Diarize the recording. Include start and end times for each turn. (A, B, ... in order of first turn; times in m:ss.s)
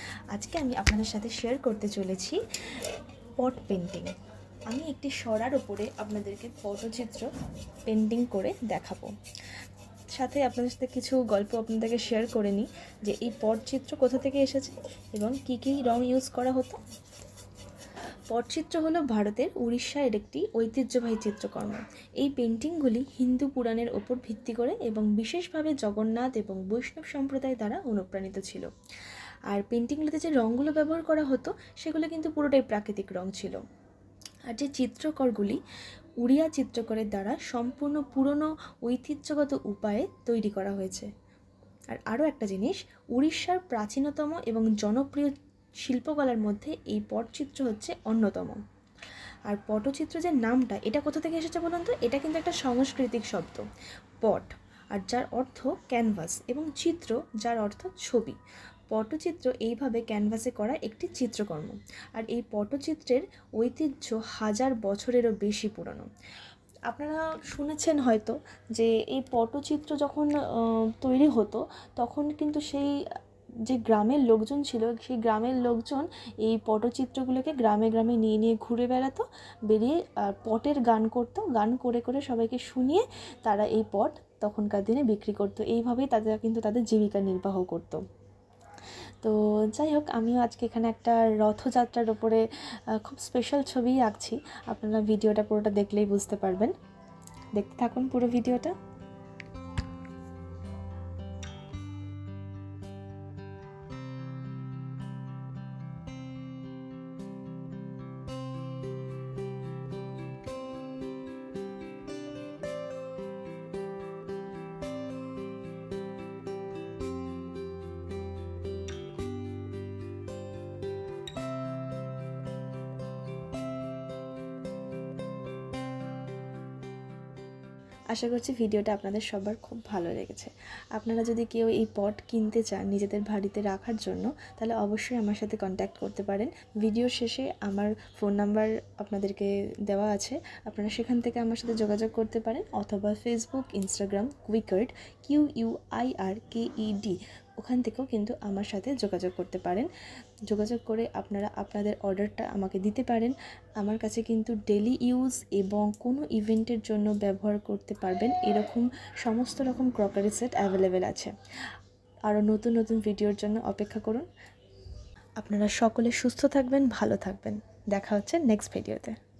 0:00.3-0:02.4 A
0:03.4-0:04.1 A
0:04.7-0:07.3 A
0:07.9-0:09.1 A
0:10.1-0:16.8 A
0:18.3-0:28.7 A
0:29.5-0:33.6 A
0:34.5-0:35.6 A
0:36.2-0:41.1 A
0:41.9-0:48.6 A
0:49.5-0:53.6 A
0:54.2-0:58.4 A
0:58.9-1:06.1 A
1:06.9-1:12.9 A
1:13.6-1:28.0 A
1:29.2-1:32.4 A
1:33.0-1:36.7 A
1:37.5-1:38.7 A
2:08.1-2:29.9 A
2:30.5-2:41.3 A
2:42.3-2:44.2 A
2:45.4-2:49.2 A